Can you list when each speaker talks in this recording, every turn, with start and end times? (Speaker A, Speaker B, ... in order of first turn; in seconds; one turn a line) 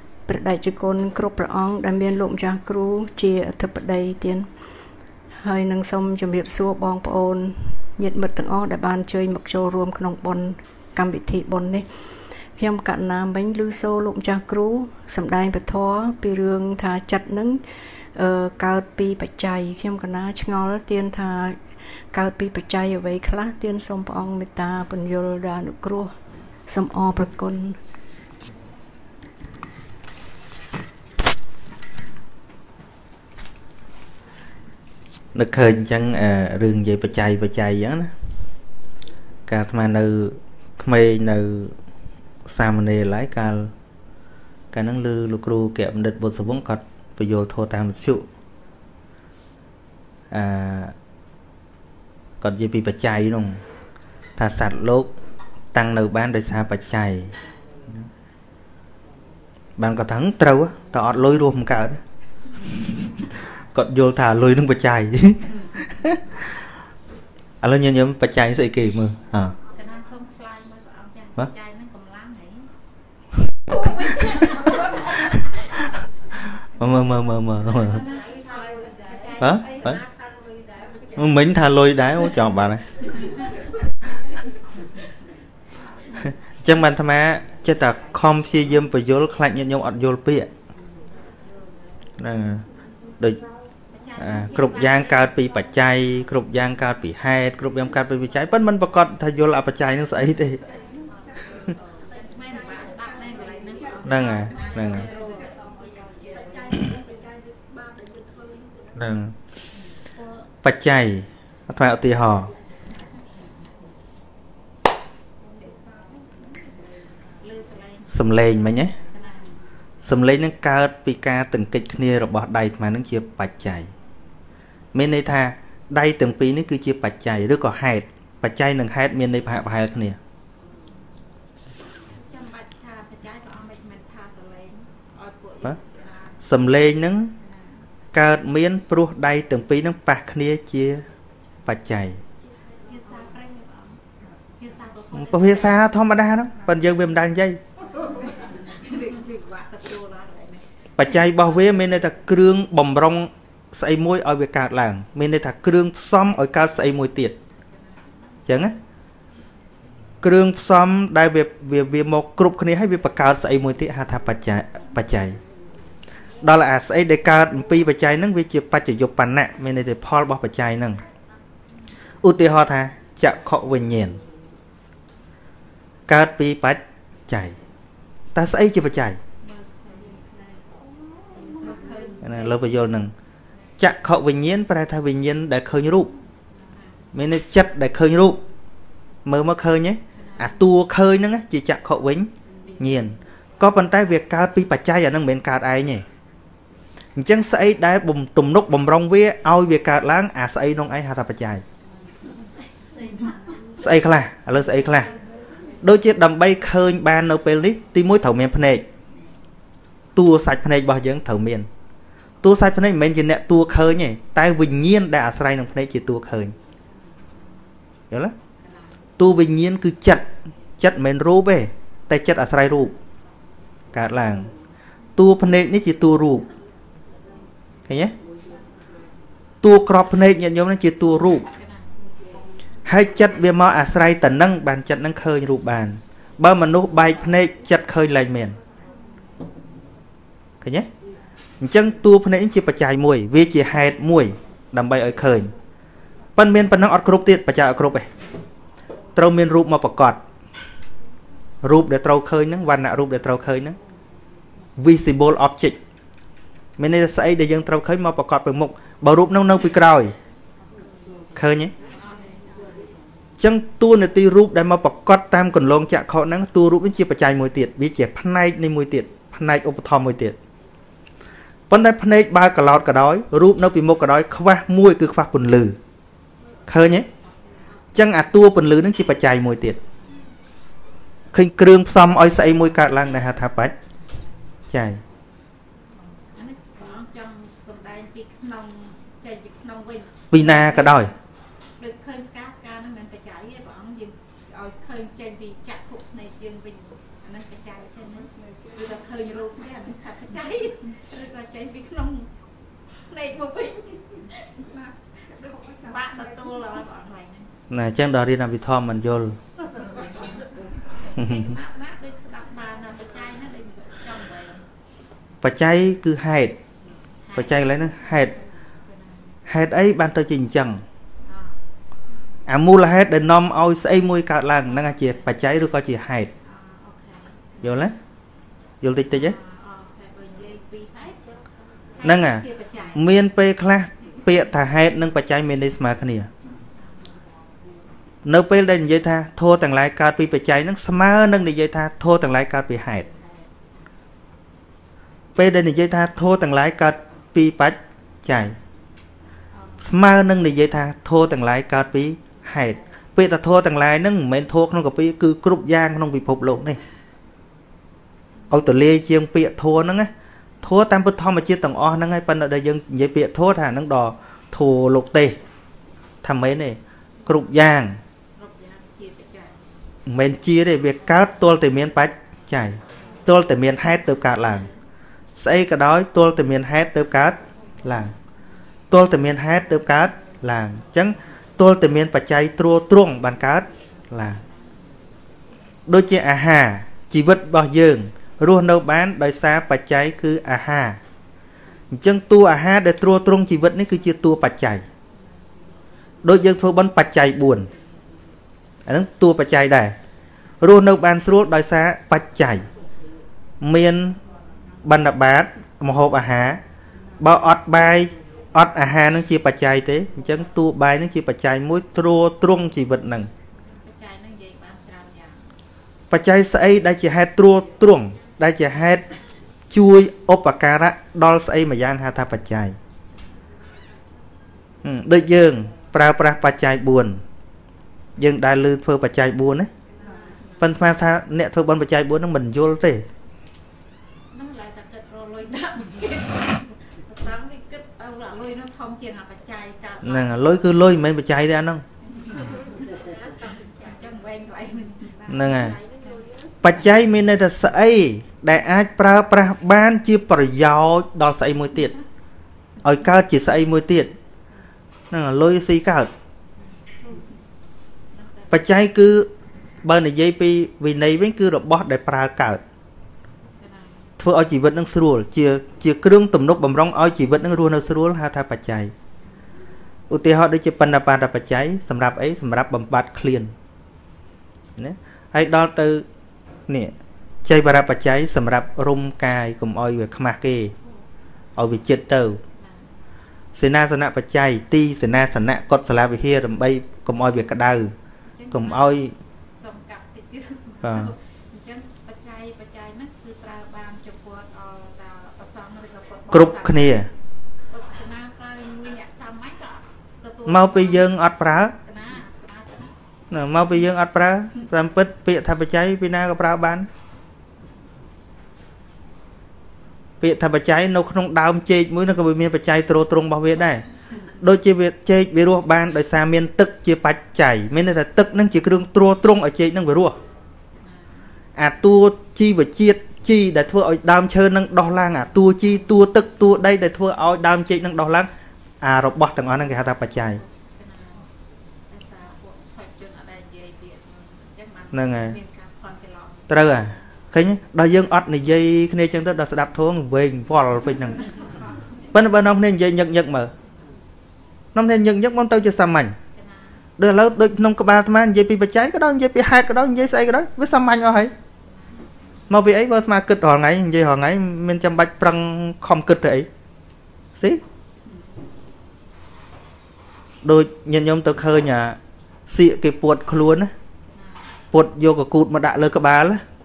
Speaker A: 0.3-4.5
Speaker A: 5.4-11.8
Speaker A: 12.6-17.6
Speaker A: 18.1-21.6
Speaker A: 22.1-26.1
Speaker A: 26.7-27.8
Speaker B: 35.3-38.1
Speaker B: 39.5-41.7
Speaker B: 42.5-43.7
Speaker B: 44.7-48.2
Speaker B: 50.3-50.9
Speaker B: 52.4-53.6
Speaker B: 54.4-55.1
Speaker B: 55.7-57.3
Speaker B: 59.8-62.0
Speaker B: 63.7-66.4
Speaker B: 67.6-69.5
Speaker C: 69.7-72.7
Speaker B: 73.7-74.3
Speaker B: 76.8-78.0
Speaker C: 77.8-79.4
Speaker B: 79.4-80.0
Speaker B: 81.1-82.8
Speaker B: 86.6-90.5
Speaker B: 92.2-92.6
Speaker C: 93.9-95.3
Speaker B: 94.2-100.6
Speaker C: 102.1-105.5
Speaker B: 104.0-105.1
Speaker B: 108.9-109.3
Speaker B: 110.6-112.5
Speaker C: 117.4-118.1
Speaker B: 118.1-118.9
Speaker C: 119.1-119.5
Speaker B: 120.0-123.9
Speaker B: 124.9-130.2
Speaker C: 132.1-136.4
Speaker B: 136.4-137.3
Speaker C: 137.4-137.8
Speaker B: 138.1-141.1
Speaker B: 141.7-142.2
Speaker C: 142.8-144.0
Speaker C: 144.6-145.8
Speaker B: 145.1-147.6
Speaker C: 148.0-150.7
Speaker B: 150.9-157.3
Speaker C: 157.7-158.1
Speaker B: 158.5-158.7
Speaker B: 160.2-165.4
Speaker B: 166.4-171.0
Speaker B: 172.2-174.2
Speaker B: 176.1-177.6
Speaker B: 178.3-179.2
Speaker C: 179.4-180.4
Speaker C: 181.3-182.5
Speaker B: 182.2-183.1
Speaker B: 183.8-186.1
Speaker C: 186.7-187.0
Speaker B: 187.1-188.4
Speaker B: 189.2-196.0
Speaker C: 190.2-190.5
Speaker C: 192.6-192.9
Speaker B: 197.2-201.6
Speaker C: 202.2-203.6
Speaker B: 203.8-205.1
Speaker B: 205.8-208.8
Speaker B: 210.2-211.7
Speaker B: 212.4-216.5
Speaker C: 218.6-218.9
Speaker B: 219.2-220.2
Speaker B: 220.8-222.9
Speaker B: 223.9-224.5
Speaker B: 225.2-226.5
Speaker B: 227.9-228.1
Speaker B: 229.6-231.5
Speaker C: 231.5-231.9
Speaker B: 232.8-238.6
Speaker B: 240.6-240.9
Speaker B: 241.6-245.5
Speaker B: 246.3-248.1
Speaker B: 249.2-250.2
Speaker B: 251.6-253.8
Speaker B: 254.8-255.8
Speaker B: 256.8-260.1
Speaker B: 261.4-261.7
Speaker C: 262.1-262.4
Speaker B: 263.4-270.4
Speaker B: 271.7-275.8
Speaker B: 276.7-277.1
Speaker B: 277.9-279.8
Speaker B: 281.3-283.7
Speaker B: 284.7-285.0
Speaker C: 286.3-291.1
Speaker B: 290.3-291.1
Speaker C: 291.8-302.3
Speaker C: 302.9-307.5
Speaker B: 307.7-309.4
Speaker C: 309.8-310.2
Speaker C: 310.8-314.6
Speaker B: 311.1-311.5
Speaker B: 315.4-316.6
Speaker C: 317.3-317.7
Speaker B: 317.3-318.3
Speaker C: 318.9-319.4
Speaker B: 319.5-320.8
Speaker C: 321.2-321.6
Speaker B: 322.5-326.3
Speaker C: 326.4-327.9
Speaker B: 327.6-327.9
Speaker B: 328.8-329.4
Speaker C: 329.1-331.2
Speaker C: 331.9-333.0
Speaker B: 332.0-336.3
Speaker B: 338.2-343.1
Speaker B: 345.4-348.5
Speaker C: 349.5-349.8
Speaker B: 349.8-356.8
Speaker B: 358.5-360.1
Speaker B: 360.6-365.4
Speaker B: 366.2-368.0
Speaker C: 368.4-369.6
Speaker B: 370.1-374.7
Speaker B: 375.4-378.1
Speaker B: 378.9-384.4
Speaker B: 385.9-391.0
Speaker B: 391.9-394.8
Speaker B: 396.2-397.7
Speaker B: 398.9-399.9
Speaker B: 400.6-402.6
Speaker B: 403.6-404.2
Speaker B: 404.8-406.6
Speaker B: 407.2-413.3
Speaker C: 413.6-415.5
Speaker B: 416.1-419.0
Speaker B: 419.7-422.8
Speaker B: 424.8-427.2
Speaker B: 428.2-429.7
Speaker C: 430.0-430.7
Speaker B: 430.6-433.0
Speaker C: 434.3-440.4
Speaker B: 440.0-441.8
Speaker C: 442.3-442.7
Speaker C: 443.6-446.2
Speaker B: 445.3-445.8
Speaker B: 446.6-451.9
Speaker B: 452.8-454.1
Speaker B: 455.1-456.1
Speaker C: 457.0-457.2
Speaker C: 458.1-458.6
Speaker B: 458.5-459.3
Speaker B: 459.8-462.6
Speaker C: 463.6-464.1
Speaker B: 464.2-468.9
Speaker B: 470.1-473.5
Speaker B: 474.8-476.0
Speaker B: 476.7-476.9
Speaker B: 477.4-480.7
Speaker B: 481.6-482.4
Speaker C: 482.6-482.9
Speaker B: 483.5-487.9
Speaker C: 488.3-497.1
Speaker B: 488.5-489.1
Speaker B: 490.8-491.1
Speaker B: 496.3-497.1
Speaker C: 497.7-501.1
Speaker B: 500.4-501.7
Speaker C: 501.8-502.9
Speaker B: 503.3-506.9
Speaker B: 510.2-513.8
Speaker B: 514.4-520.1
Speaker C: 520.8-521.3
Speaker B: 521.6-528.3
Speaker B: 528.8-530.4
Speaker C: 530.2-531.2
Speaker C: 531.9-536.5
Speaker B: 534.9-535.4
Speaker B: 536.5-541.2
Speaker C: 541.3-542.1
Speaker B: 542.1-543.5
Speaker B: 544.7-546.1
Speaker C: 546.3-546.8
Speaker B: 547.0-551.3
Speaker C: 551.6-552.4
Speaker B: 552.5-556.5
Speaker B: 557.4-557.6
Speaker B: 560.4-563.7
Speaker C: 564.1-564.5
Speaker B: 564.7-566.4